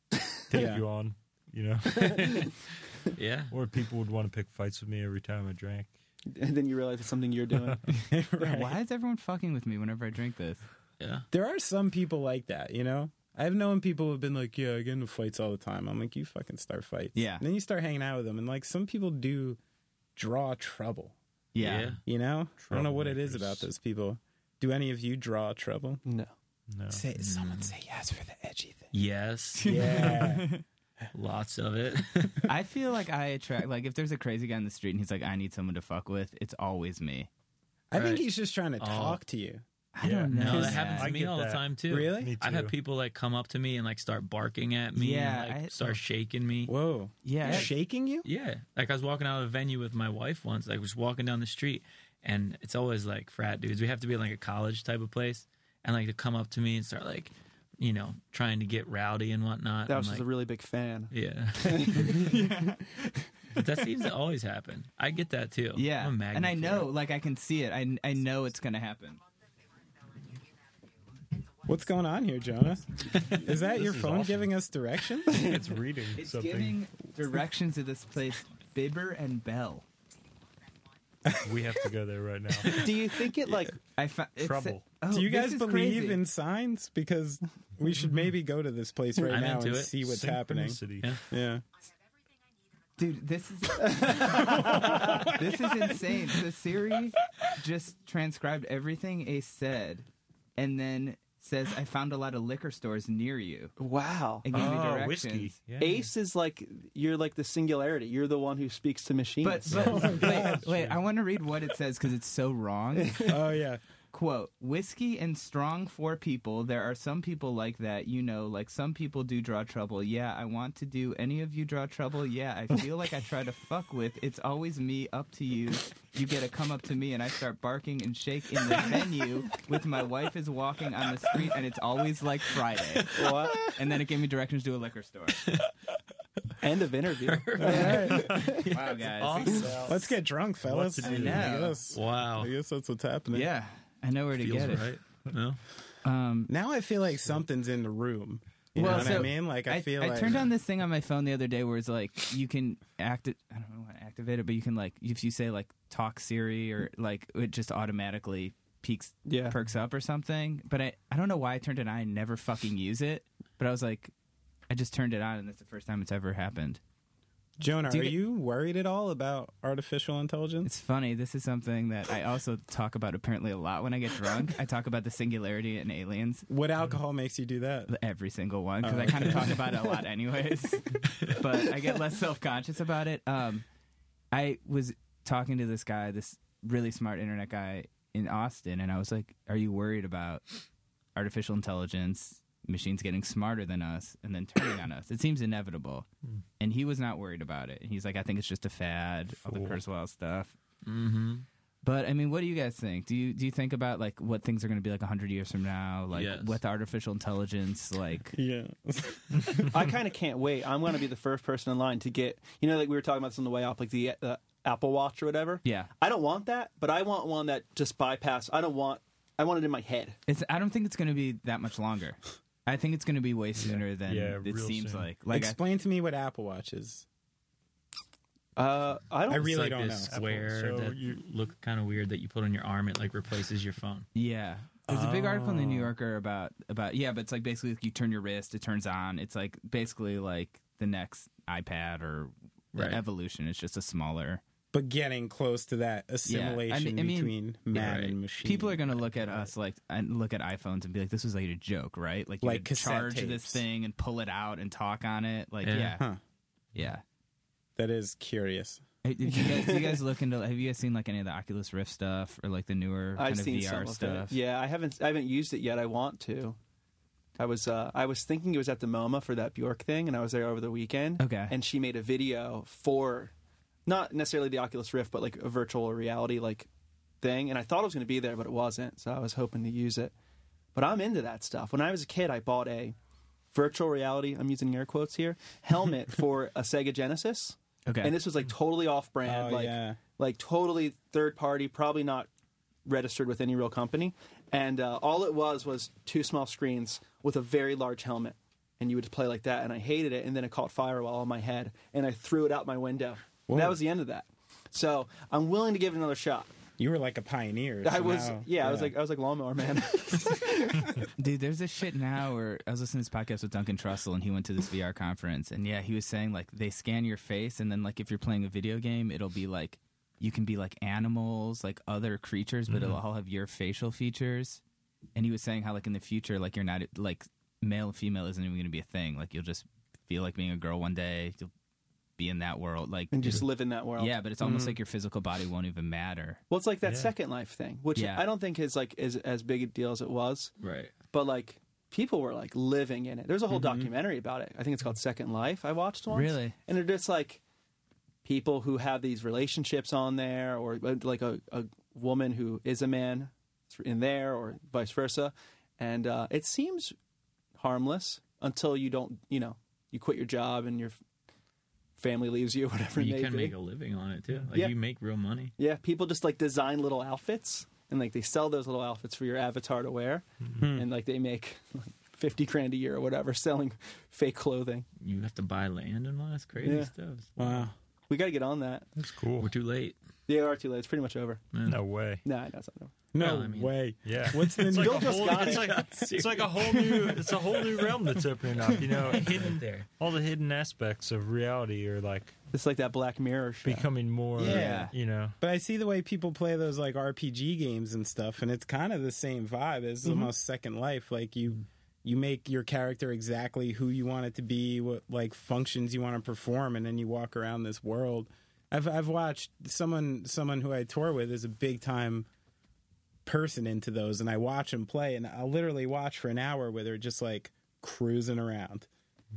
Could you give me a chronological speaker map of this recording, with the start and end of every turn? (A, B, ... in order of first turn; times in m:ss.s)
0:00.4-0:02.5 A
0:00.5-0:00.8 B
0:01.9-0:02.5 C
0:03.1-0:03.5 C
0:03.5-0:05.9 A
0:06.3-0:07.8 D
0:08.1-0:08.8 B
0:08.4-0:10.6 E
0:11.0-0:11.2 C
0:11.3-0:19.6 B
0:17.1-0:17.4 E
0:20.2-0:21.2 B
0:21.6-0:22.0 E
0:21.6-0:22.0 C
0:22.1-0:26.0 B
0:22.6-0:23.7 A
0:26.1-0:26.3 D
0:26.7-0:27.0 A
0:26.9-0:28.9 B
0:27.2-0:27.7 C
0:28.9-0:30.2 C
0:29.6-0:30.6 E
0:29.6-0:30.5 B
0:31.1-0:32.4 C
0:32.5-0:37.3 E
0:37.9-0:39.6 B
0:37.9-0:38.2 C
0:38.8-0:39.2 C
0:39.9-0:41.1 E
0:40.0-0:42.7 A
0:40.3-0:46.7 C
0:41.9-0:42.3 B
0:44.9-0:46.0 E
0:46.6-0:48.2 B
0:47.2-0:47.7 E
0:47.4-0:47.7 C
0:48.2-1:00.2 C
0:59.9-1:02.2 D
1:01.1-1:02.4 C
1:02.1-1:03.0 E
1:03.6-1:06.9 C
1:05.7-1:09.2 E
1:11.6-1:15.5 B
1:13.2-1:14.5 A
1:15.2-1:16.8 A
1:16.1-1:19.8 E
1:21.2-1:21.6 B
1:21.4-1:22.9 A
1:22.6-1:23.8 D
1:23.9-1:26.2 E
1:24.4-1:25.0 A
1:25.1-1:31.6 B
1:29.3-1:29.9 C
1:30.0-1:31.2 A
1:33.0-1:43.7 E
1:33.8-1:34.2 D
1:34.4-1:35.6 B
1:43.8-1:44.7 D
1:44.4-1:45.6 E
1:44.5-1:46.1 A
1:45.8-1:50.1 D
1:49.4-1:53.2 E
1:49.7-1:51.0 A
1:49.9-1:50.6 B
1:52.9-1:53.5 D
1:53.3-1:53.8 B
1:54.1-2:15.4 E
2:13.1-2:13.7 D
2:15.5-2:15.7 C
2:16.6-2:18.7 D
2:17.2-2:20.0 C
2:17.6-2:18.4 B
2:18.6-2:20.0 E
2:19.6-2:19.9 A
2:19.8-2:23.5 B
2:20.6-2:21.6 A
2:21.0-2:21.8 E
2:21.9-2:22.5 C
2:23.3-2:24.9 E
2:24.4-2:25.6 C
2:24.6-2:25.0 A
2:26.0-2:26.5 E
2:26.5-2:30.5 B
2:28.8-2:44.1 E
2:28.8-2:29.1 C
2:39.2-2:39.6 D
2:44.7-2:46.8 E
2:47.6-2:50.7 B
2:47.9-2:48.2 E
2:50.6-2:56.5 E
2:56.5-2:57.9 B
2:57.9-3:03.6 E
2:58.8-2:59.7 B
3:04.3-3:10.4 E
3:11.2-3:16.1 E
3:16.6-3:20.5 E
3:19.4-3:19.8 A
3:20.8-3:21.5 C
3:21.8-3:28.3 E
3:26.1-3:26.6 C
3:28.3-3:29.7 B
3:29.7-3:40.2 D
3:35.6-3:35.9 E
3:40.3-3:45.6 E
3:43.6-3:45.1 A
3:45.3-3:47.0 B
3:48.6-3:50.0 D
3:49.3-3:50.1 B
3:49.3-3:54.1 C
3:50.1-3:51.2 A
3:54.2-4:04.4 E
3:54.9-3:55.9 A
4:02.7-4:03.0 C
4:04.7-4:08.9 B
4:06.2-4:07.4 E
4:07.7-4:08.2 C
4:08.4-4:16.0 E
4:12.4-4:13.6 B
4:15.6-4:16.0 C
4:16.8-4:17.0 E
4:17.8-4:18.8 B
4:19.0-4:24.4 E
4:19.2-4:20.0 D
4:23.2-4:26.6 D
4:27.4-4:33.3 D
4:31.2-4:31.5 E
4:33.8-4:36.7 D
4:37.2-4:40.1 D
4:40.8-4:42.9 D
4:43.5-4:52.3 D
4:47.8-4:48.2 E
4:49.2-4:50.0 B
4:52.8-5:06.5 D
5:03.5-5:03.8 B
5:06.8-5:08.9 B
5:07.8-5:11.0 D
5:11.2-5:24.6 E
5:22.7-5:23.0 A
5:25.2-5:31.5 E
5:32.2-5:33.4 E
5:33.1-5:34.2 D
5:34.0-5:36.4 E
5:34.4-5:34.8 B
5:36.5-5:40.5 D
5:36.8-5:37.1 A
5:37.9-5:38.3 E
5:40.6-5:40.9 C
5:41.1-5:47.4 D
5:43.5-5:43.9 B
5:46.1-5:46.6 E
5:48.2-5:56.9 D
5:57.5-6:01.0 D
6:02.0-6:03.5 D
6:03.0-6:05.5 C
6:05.6-6:14.8 D
6:10.6-6:10.9 B
6:15.0-6:17.6 C
6:16.6-6:16.9 D
6:17.4-6:17.7 B
6:18.1-6:18.9 D
6:19.0-6:19.5 A
6:19.4-6:20.0 C
6:20.3-6:21.4 D
6:21.5-6:21.8 C
6:21.6-6:22.2 A
6:22.2-6:22.9 D
6:23.1-6:25.4 B
6:23.2-6:23.8 C
6:24.0-6:32.3 A
6:24.8-6:25.9 D
6:25.2-6:27.1 C
6:28.7-6:29.9 C
6:32.5-6:34.7 D
6:33.6-6:35.4 A
6:34.4-6:52.3 B
6:34.4-6:34.9 E
6:53.2-6:58.9 B